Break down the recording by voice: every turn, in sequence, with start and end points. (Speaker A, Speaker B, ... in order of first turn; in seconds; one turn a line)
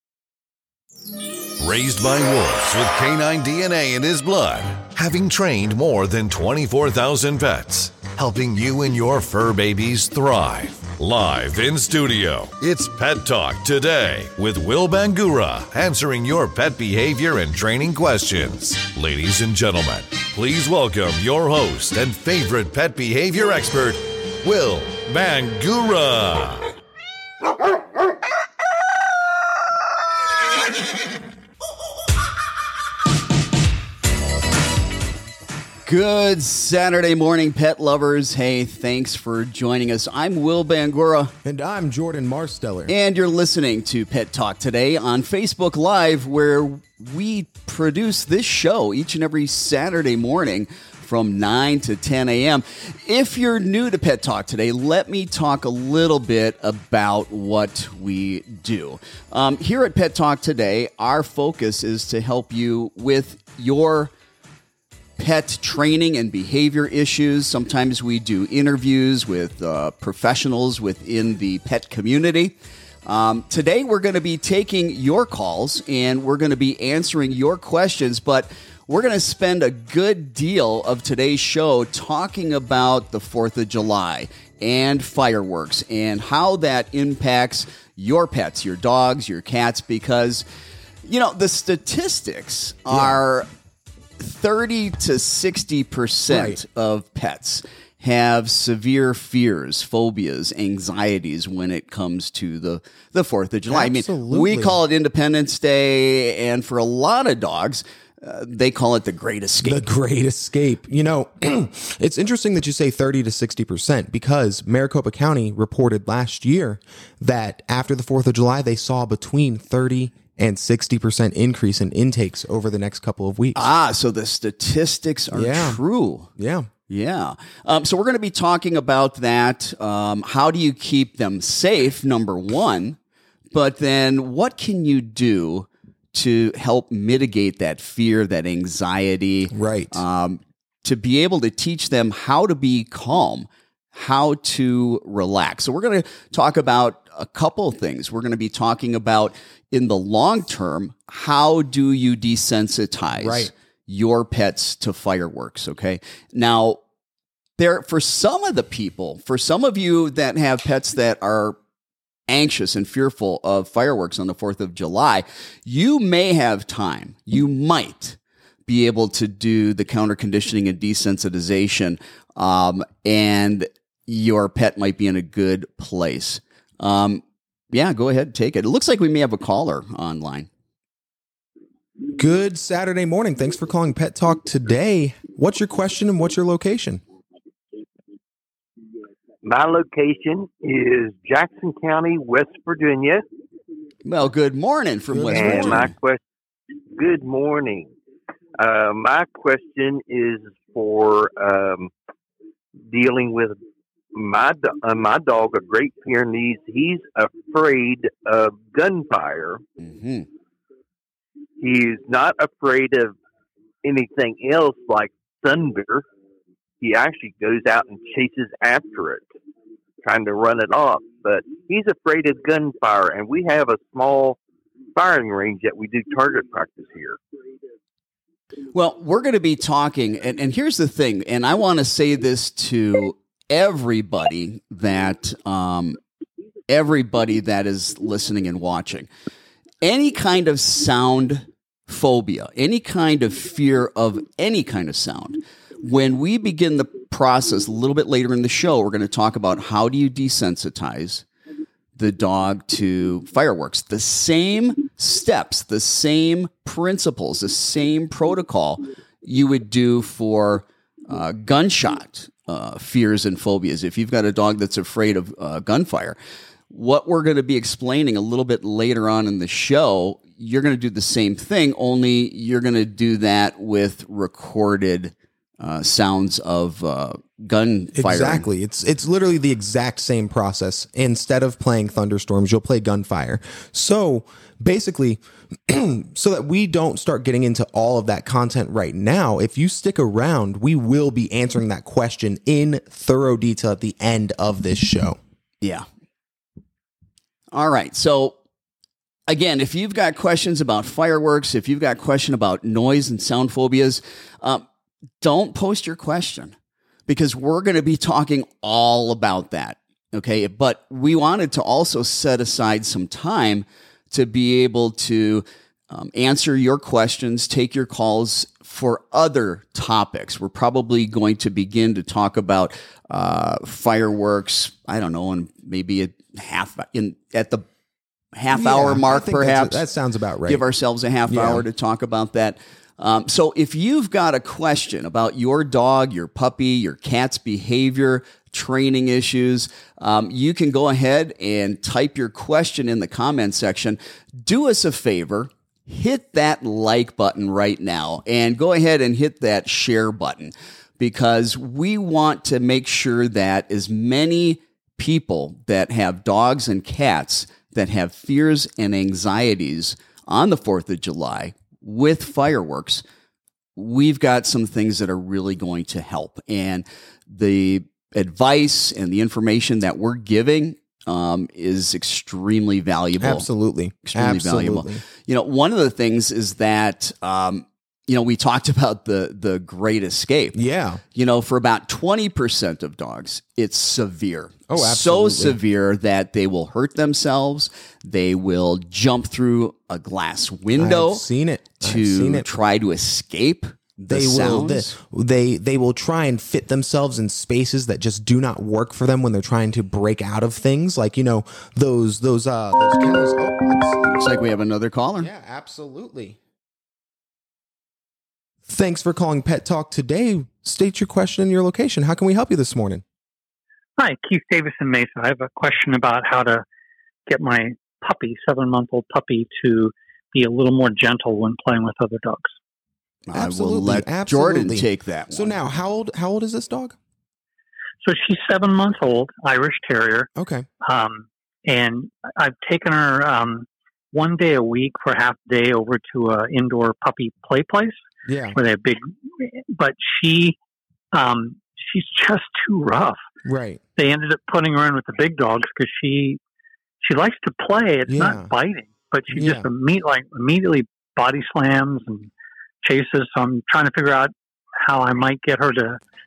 Speaker A: 1.6-26.7
Speaker B: 35.8-41.3
Speaker C: 41.4-42.9
Speaker B: 42.9-64.1
Speaker B: 65.2-72.5
Speaker B: 73.0-90.4
Speaker B: 91.0-93.5
Speaker C: 92.9-93.2
Speaker B: 94.2-109.8
Speaker C: 96.3-96.6
Speaker C: 103.7-104.8
Speaker C: 109.6-123.7
Speaker B: 123.5-126.3
Speaker C: 125.3-125.8
Speaker C: 126.4-126.7
Speaker B: 126.9-133.0
Speaker B: 133.5-156.8
Speaker C: 139.5-140.0
Speaker C: 153.2-153.5
Speaker B: 157.6-161.6
Speaker B: 162.3-180.5
Speaker C: 182.2-187.0
Speaker D: 189.4-193.2
Speaker B: 194.1-195.9
Speaker C: 195.1-195.9
Speaker D: 195.3-196.2
Speaker D: 196.9-197.9
Speaker D: 198.6-201.9
Speaker D: 202.9-203.6
Speaker D: 204.1-209.6
Speaker B: 209.8-210.3
Speaker D: 211.6-213.2
Speaker D: 213.8-216.0
Speaker D: 216.8-219.2
Speaker D: 220.0-224.4
Speaker D: 224.9-227.2
Speaker B: 228.7-236.0
Speaker B: 236.7-239.1
Speaker B: 239.8-251.2
Speaker B: 252.0-266.1
Speaker B: 266.7-278.5
Speaker C: 277.9-295.2
Speaker B: 297.5-298.4
Speaker B: 299.3-304.6
Speaker B: 305.2-306.5
Speaker B: 307.1-327.6
Speaker B: 328.3-329.8
Speaker C: 328.5-330.6
Speaker B: 330.4-363.0
Speaker C: 331.3-331.6
Speaker B: 363.8-373.4
Speaker C: 373.2-375.0
Speaker B: 374.0-380.6
Speaker C: 380.5-381.0
Speaker B: 381.1-391.2
Speaker C: 384.7-385.6
Speaker C: 390.8-392.4
Speaker B: 391.8-394.9
Speaker C: 394.1-404.2
Speaker B: 404.1-405.3
Speaker C: 405.2-406.4
Speaker C: 408.7-413.0
Speaker E: 414.0-416.6
Speaker E: 417.3-422.5
Speaker B: 423.3-425.6
Speaker C: 423.3-426.9
Speaker E: 428.0-430.3
Speaker C: 430.4-430.7
Speaker E: 430.8-437.9
Speaker C: 438.2-438.6
Speaker E: 438.5-440.6
Speaker E: 441.1-443.2
Speaker C: 443.4-443.8
Speaker E: 444.0-446.4
Speaker E: 447.0-452.3
Speaker C: 448.1-448.5
Speaker C: 449.3-449.7
Speaker E: 452.8-454.3
Speaker E: 454.8-456.0